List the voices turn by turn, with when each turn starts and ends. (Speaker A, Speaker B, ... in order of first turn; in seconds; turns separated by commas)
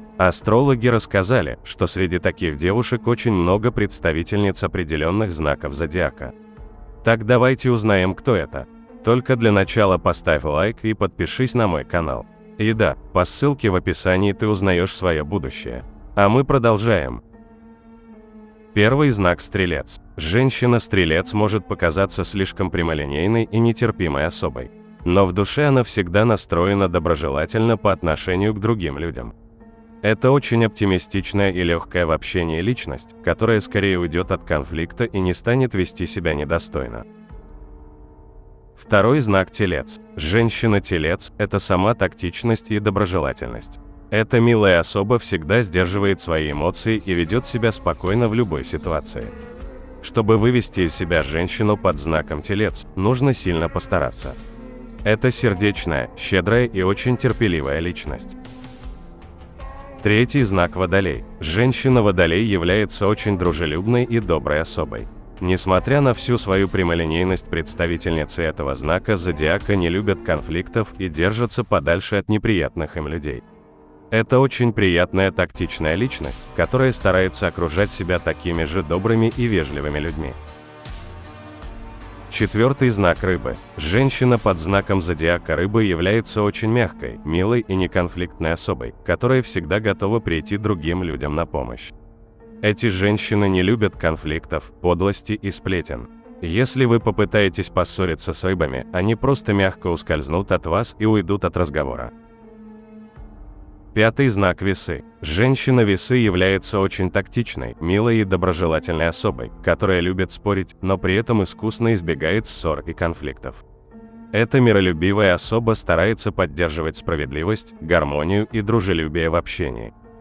Speaker A: 0.2-6.3, Speaker A: 7.0-17.2, Speaker A: 18.7-29.3, Speaker A: 30.0-37.0, Speaker A: 38.8-49.3, Speaker A: 50.0-54.4, Speaker A: 55.0-58.4, Speaker A: 60.0-73.4, Speaker A: 74.1-80.4, Speaker A: 82.3-91.9, Speaker A: 92.6-102.1, Speaker A: 103.9-113.6, Speaker A: 114.3-119.9